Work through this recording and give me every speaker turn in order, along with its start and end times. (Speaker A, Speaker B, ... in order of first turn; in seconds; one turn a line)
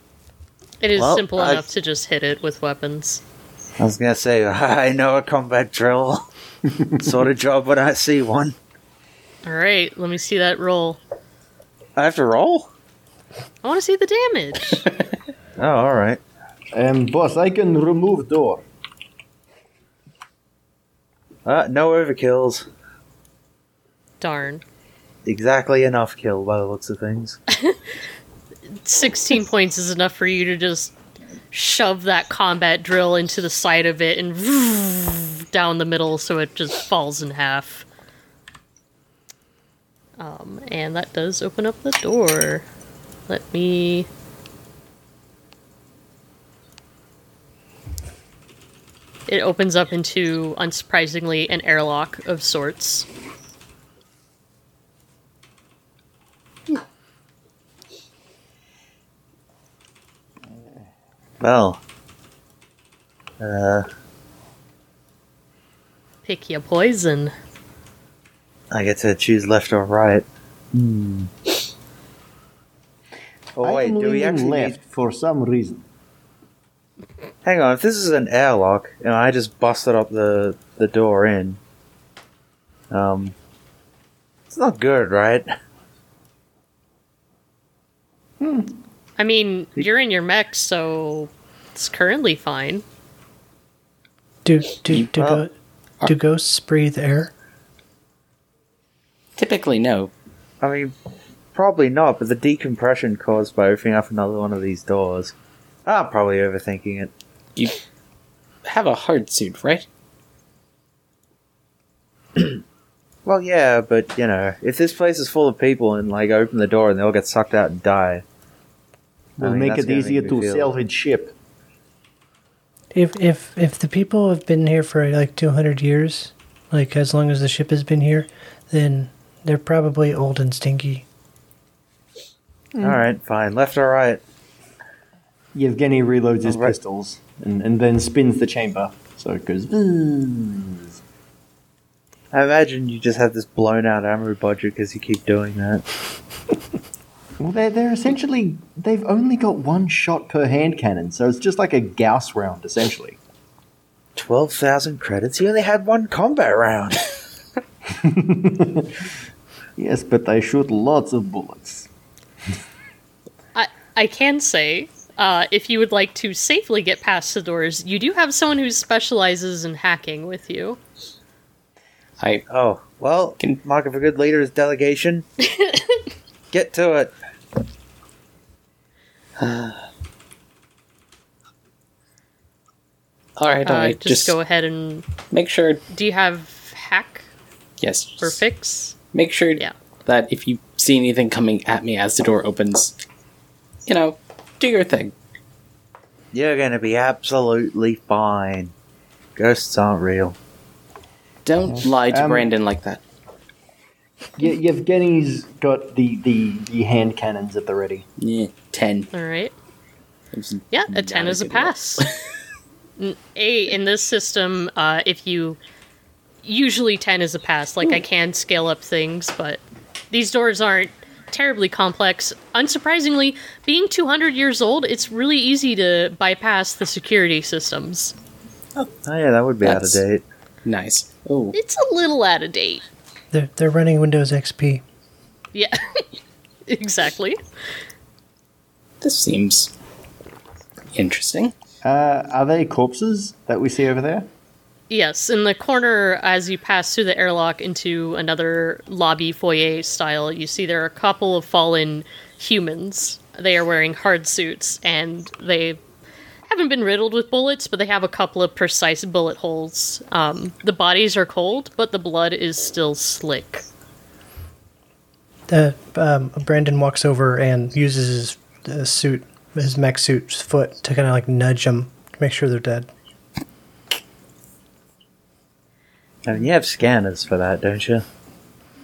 Speaker A: 0.8-3.2
Speaker B: 1.0-1.6
Speaker B: 3.8-6.2
Speaker B: 7.0-8.6
Speaker A: 9.4-11.0
Speaker B: 12.0-12.7
Speaker A: 13.6-14.9
Speaker B: 15.6-16.2
Speaker C: 16.7-18.6
Speaker B: 21.4-22.7
Speaker A: 24.2-24.6
Speaker B: 25.2-27.4
Speaker A: 28.7-30.9
Speaker A: 31.5-37.8
Speaker A: 40.2-42.7
Speaker A: 43.3-44.1
Speaker A: 49.3-53.1
Speaker B: 61.4-61.8
Speaker B: 63.4-63.9
Speaker A: 66.2-67.3
Speaker B: 68.7-71.3
Speaker B: 73.6-74.8
Speaker C: 73.6-75.8
Speaker B: 77.4-81.6
Speaker B: 82.9-83.3
Speaker B: 84.5-85.5
Speaker C: 88.4-88.7
Speaker A: 89.2-92.8
Speaker D: 94.4-95.5
Speaker B: 95.2-95.4
Speaker D: 96.1-97.3
Speaker E: 99.4-100.1
Speaker B: 100.6-100.9
Speaker B: 101.5-105.3
Speaker B: 105.9-107.1
Speaker E: 108.7-109.9
Speaker B: 113.2-118.2
Speaker B: 119.4-120.7
Speaker C: 119.4-121.3
Speaker D: 122.9-131.1
Speaker B: 132.8-134.2
Speaker C: 135.5-140.9
Speaker B: 136.4-136.7
Speaker B: 142.3-145.8
Speaker C: 147.4-153.2
Speaker B: 154.2-157.2
Speaker C: 157.9-158.9
Speaker C: 159.8-161.9
Speaker A: 163.6-170.8
Speaker E: 172.2-172.4
Speaker B: 172.5-175.2
Speaker B: 176.5-177.1
Speaker B: 179.4-179.8
Speaker E: 183.4-184.4
Speaker A: 183.6-185.1
Speaker E: 185.3-185.8
Speaker A: 185.9-187.3
Speaker E: 187.8-188.4
Speaker A: 188.2-188.9
Speaker E: 189.1-192.9
Speaker E: 193.9-195.1
Speaker B: 196.3-198.7
Speaker B: 199.4-200.4
Speaker E: 201.4-203.0
Speaker C: 201.7-202.5
Speaker C: 204.4-208.1
Speaker E: 208.2-209.1
Speaker A: 209.1-209.6
Speaker E: 210.3-212.2
Speaker A: 210.7-212.1
Speaker A: 213.0-215.6
Speaker A: 216.4-228.2
Speaker B: 228.8-230.2
Speaker E: 229.6-230.0
Speaker E: 230.7-231.6
Speaker A: 231.5-232.8
Speaker D: 233.3-234.8
Speaker A: 235.5-236.0
Speaker A: 236.7-237.4
Speaker E: 239.0-239.7
Speaker E: 240.9-241.5
Speaker C: 241.8-244.3
Speaker A: 244.9-255.8
Speaker A: 256.5-263.6
Speaker D: 265.5-272.9
Speaker B: 276.2-278.0